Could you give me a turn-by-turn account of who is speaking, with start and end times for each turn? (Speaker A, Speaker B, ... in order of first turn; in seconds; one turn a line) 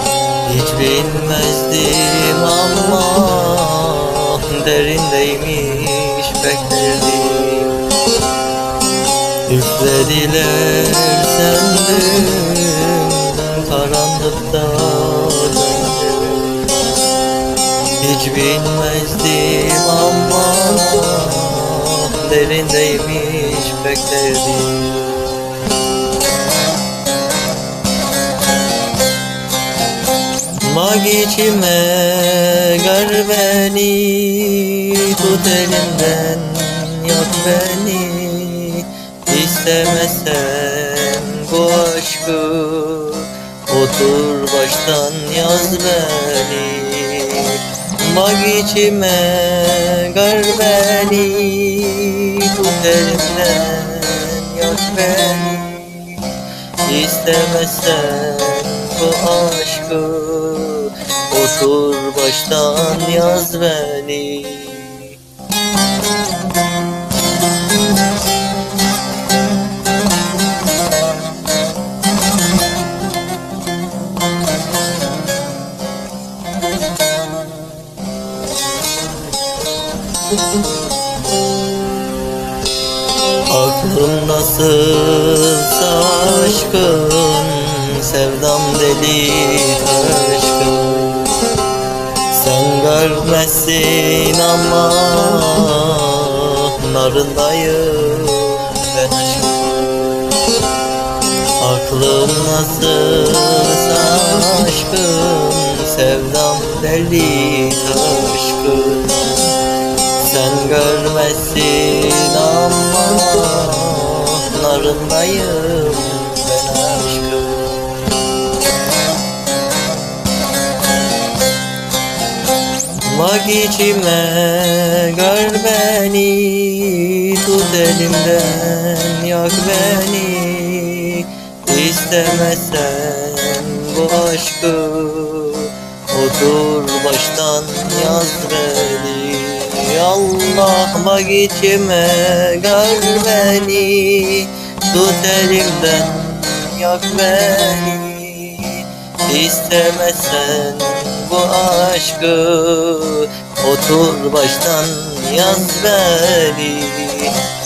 Speaker A: 0.4-7.9
Speaker A: 9.5-16.9
Speaker A: 18.0-25.4
Speaker A: 30.6-56.3
Speaker A: 56.8-65.2
Speaker A: 83.5-91.4
Speaker A: 92.3-100.3
Speaker A: 101.6-109.5
Speaker A: 110.2-118.1
Speaker A: 123.1-157.3